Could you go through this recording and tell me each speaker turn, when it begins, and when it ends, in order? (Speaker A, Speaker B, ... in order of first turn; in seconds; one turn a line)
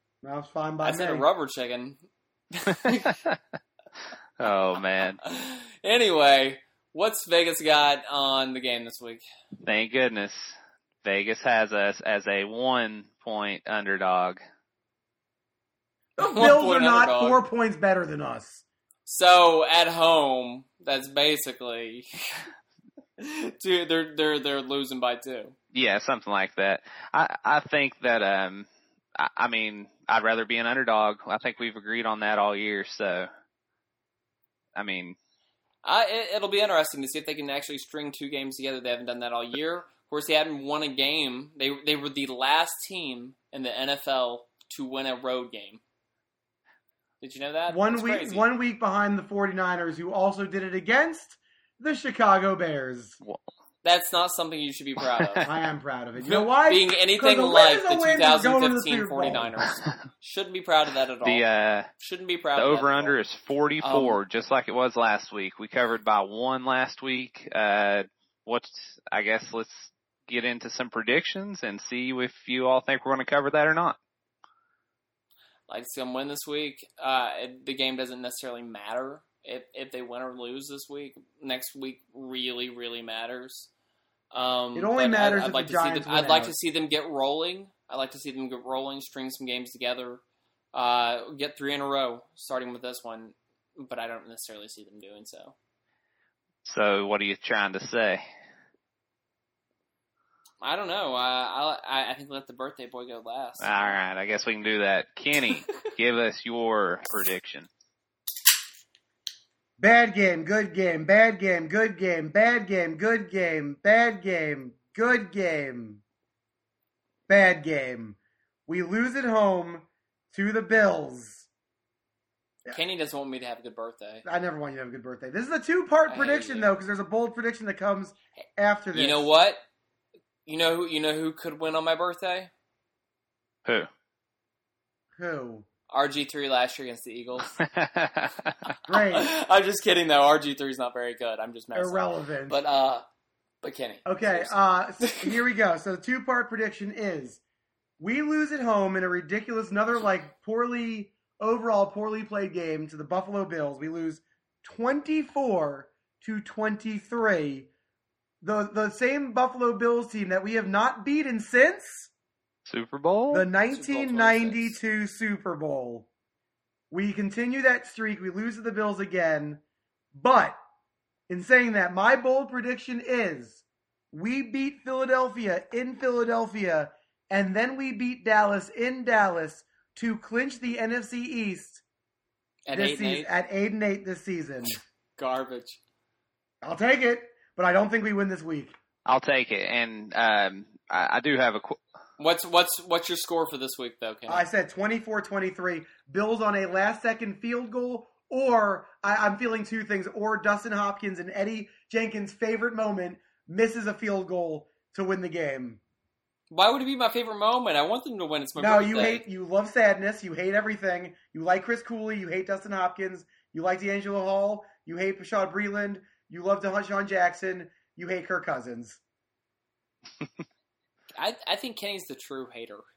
Speaker A: 0.2-1.3
Speaker B: 0.8-2.0
Speaker B: 2.5-3.2
Speaker C: 4.4-5.2
Speaker B: 5.2-9.2
Speaker C: 9.6-14.4
Speaker A: 16.2-18.6
Speaker B: 16.2-17.4
Speaker B: 19.1-22.5
Speaker B: 23.2-25.6
Speaker C: 25.7-33.3
Speaker C: 34.8-35.2
Speaker B: 35.8-45.8
Speaker B: 47.2-48.5
Speaker A: 47.7-53.2
Speaker B: 53.8-55.5
Speaker A: 55.5-59.6
Speaker B: 56.2-61.5
Speaker C: 61.2-61.9
Speaker B: 62.0-63.2
Speaker C: 62.6-74.0
Speaker B: 63.8-64.2
Speaker B: 75.7-83.7
Speaker B: 84.3-90.2
Speaker A: 84.8-86.5
Speaker B: 90.7-95.5
Speaker C: 96.7-98.2
Speaker B: 100.6-103.9
Speaker C: 103.6-107.7
Speaker A: 109.8-116.0
Speaker A: 117.3-121.5
Speaker B: 122.7-124.2
Speaker A: 124.2-129.3
Speaker B: 126.1-126.7
Speaker B: 128.9-129.6
Speaker B: 130.5-132.5
Speaker A: 135.2-135.7
Speaker B: 135.9-137.6
Speaker C: 137.6-138.6
Speaker A: 138.9-139.3
Speaker B: 139.1-143.1
Speaker A: 141.8-142.6
Speaker B: 143.6-145.4
Speaker A: 144.1-147.4
Speaker A: 148.0-157.7
Speaker A: 158.4-162.1
Speaker C: 162.7-163.5
Speaker A: 163.3-166.1
Speaker B: 163.7-164.8
Speaker A: 166.9-169.6
Speaker A: 170.1-170.6
Speaker A: 171.3-181.8
Speaker B: 182.7-183.3
Speaker A: 182.7-184.8
Speaker B: 185.2-185.8
Speaker A: 186.6-188.7
Speaker C: 189.1-191.8
Speaker B: 192.2-194.5
Speaker A: 194.3-205.8
Speaker B: 206.5-209.2
Speaker A: 208.6-219.0
Speaker B: 221.2-222.8